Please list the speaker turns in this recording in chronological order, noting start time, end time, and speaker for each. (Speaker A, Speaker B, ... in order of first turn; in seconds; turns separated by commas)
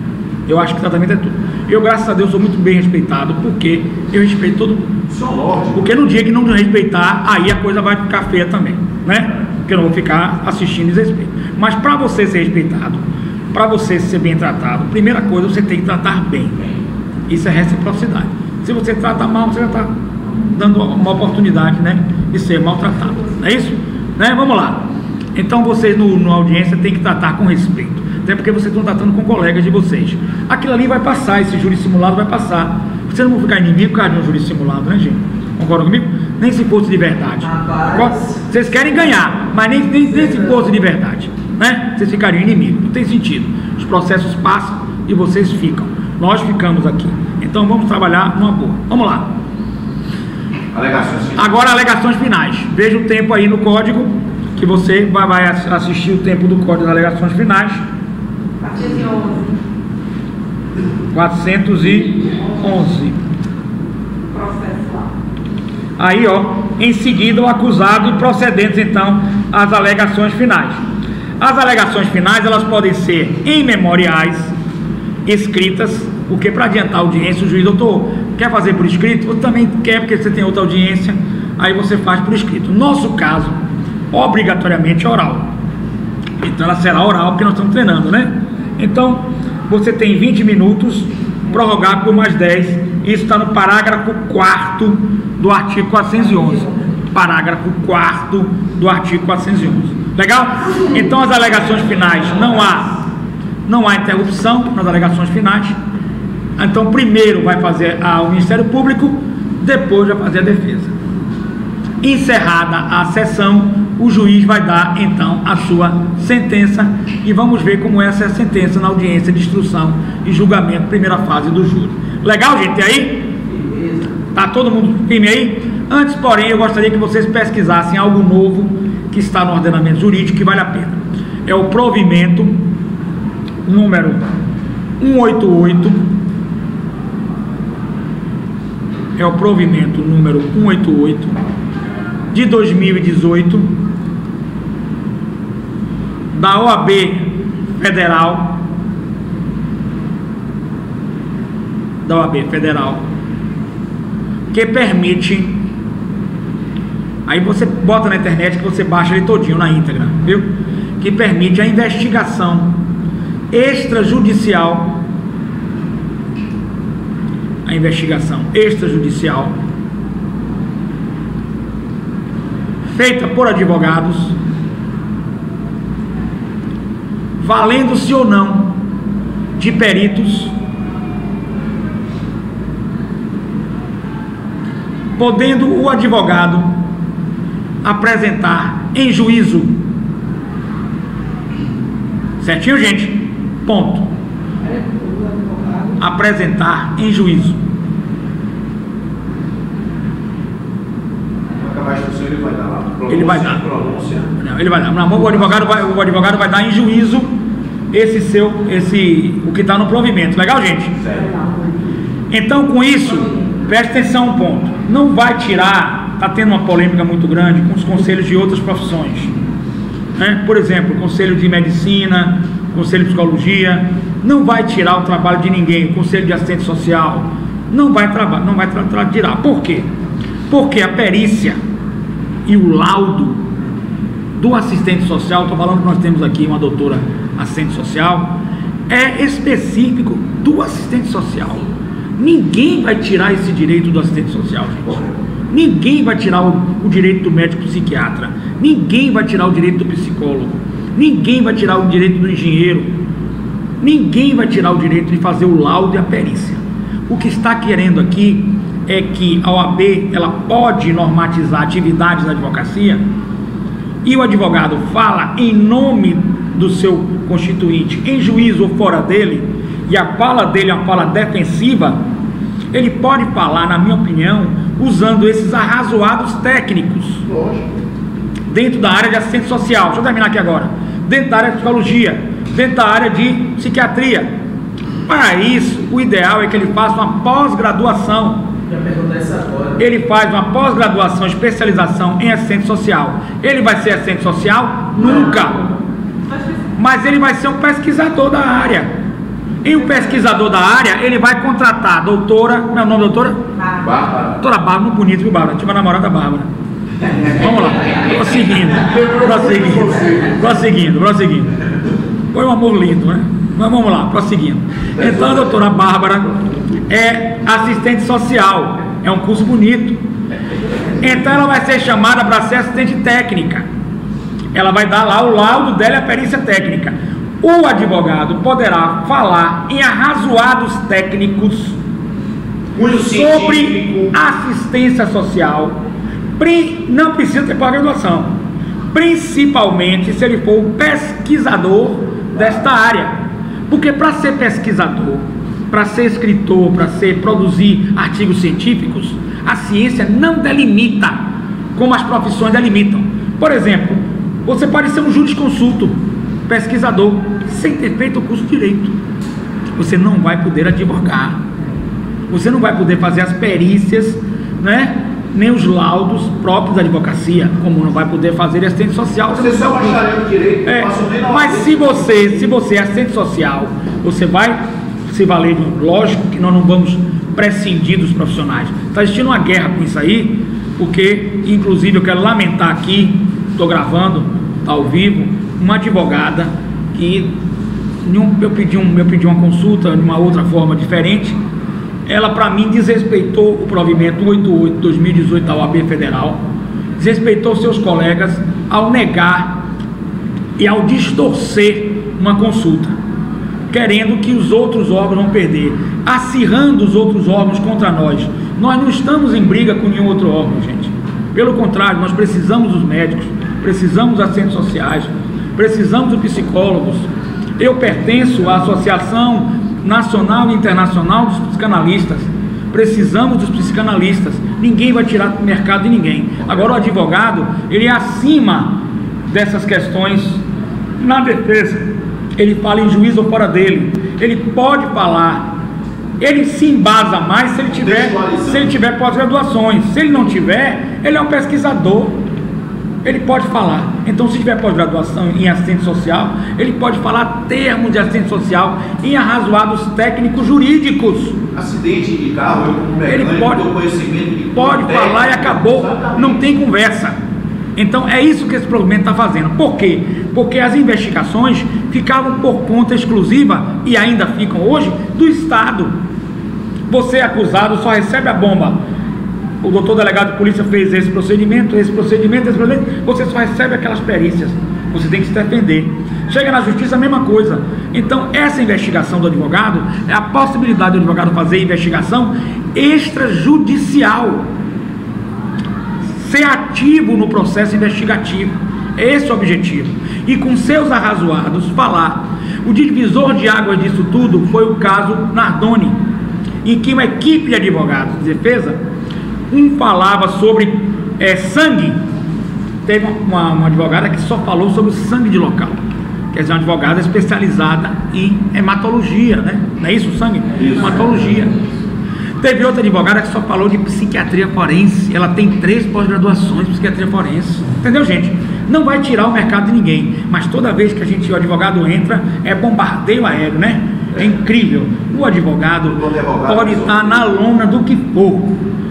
Speaker A: 0.5-5.0, Speaker B: 5.1-5.9, Speaker A: 5.7-16.7, Speaker A: 17.3-19.9, Speaker A: 20.5-49.3, Speaker C: 37.4-39.3, Speaker C: 40.0-40.7, Speaker B: 50.7-51.6, Speaker A: 51.4-57.8, Speaker D: 58.6-59.6, Speaker A: 61.1-63.2, Speaker D: 64.3-65.1, Speaker A: 66.0-70.8, Speaker A: 71.4-74.5, Speaker A: 75.2-83.6, Speaker A: 84.1-85.5, Speaker A: 86.4-102.9, Speaker C: 101.6-102.7, Speaker A: 103.7-105.8, Speaker A: 106.6-110.9, Speaker A: 112.0-123.3, Speaker C: 123.5-124.2, Speaker A: 124.3-132.6, Speaker A: 133.7-134.3, Speaker A: 135.0-136.1, Speaker A: 139.2-141.4, Speaker A: 142.3-143.7, Speaker A: 146.3-148.6, Speaker A: 152.0-153.0, Speaker A: 154.5-155.7, Speaker A: 157.3-162.8, Speaker A: 163.5-164.9, Speaker A: 167.7-169.5, Speaker A: 172.9-174.3, Speaker A: 177.4-178.8, Speaker A: 179.6-180.5, Speaker A: 185.2-186.7, Speaker A: 187.8-189.8, Speaker A: 192.4-194.1, Speaker D: 194.6-196.0, Speaker A: 196.0-197.6, Speaker B: 201.6-204.3, Speaker A: 203.1-203.6, Speaker A: 204.4-207.3, Speaker A: 207.9-210.9, Speaker B: 211.0-211.3, Speaker D: 211.1-211.9, Speaker A: 212.3-219.3, Speaker D: 213.2-213.5, Speaker A: 220.2-229.9, Speaker A: 230.5-231.6, Speaker A: 232.5-233.4, Speaker A: 234.3-238.4, Speaker A: 238.9-241.7, Speaker A: 242.2-253.0, Speaker A: 253.8-263.0, Speaker A: 264.0-272.0, Speaker A: 272.7-277.2, Speaker B: 277.2-277.7, Speaker A: 278.5-284.3, Speaker A: 285.1-288.5, Speaker C: 288.7-289.8, Speaker A: 289.8-295.6, Speaker D: 296.3-296.6, Speaker A: 296.8-298.9, Speaker A: 299.6-303.4, Speaker D: 303.6-303.9, Speaker B: 303.8-304.4, Speaker A: 304.4-306.5, Speaker A: 307.3-311.6, Speaker A: 312.3-316.3, Speaker A: 316.9-320.0, Speaker A: 321.0-323.7, Speaker A: 324.5-331.8, Speaker B: 332.7-334.1, Speaker A: 332.8-335.8, Speaker A: 336.4-338.4, Speaker A: 338.9-343.2, Speaker A: 343.7-351.2, Speaker A: 351.8-358.9, Speaker A: 359.8-361.4, Speaker A: 362.3-370.0, Speaker B: 369.3-372.5, Speaker A: 370.7-387.3, Speaker A: 388.0-391.4, Speaker A: 392.1-396.4, Speaker A: 397.0-399.6, Speaker A: 400.6-403.0, Speaker A: 403.7-430.4, Speaker B: 426.4-426.7, Speaker A: 431.0-435.5, Speaker A: 436.2-442.2, Speaker B: 437.7-438.7, Speaker A: 443.0-451.4, Speaker B: 451.5-456.5, Speaker A: 453.1-453.7, Speaker A: 454.6-457.2, Speaker A: 457.8-465.9, Speaker A: 466.9-468.8, Speaker A: 469.6-484.5, Speaker A: 486.2-496.0, Speaker A: 496.6-498.8, Speaker A: 499.5-502.0, Speaker A: 502.9-505.8, Speaker A: 506.3-511.6, Speaker B: 510.6-511.4, Speaker A: 512.4-528.6, Speaker B: 525.9-527.3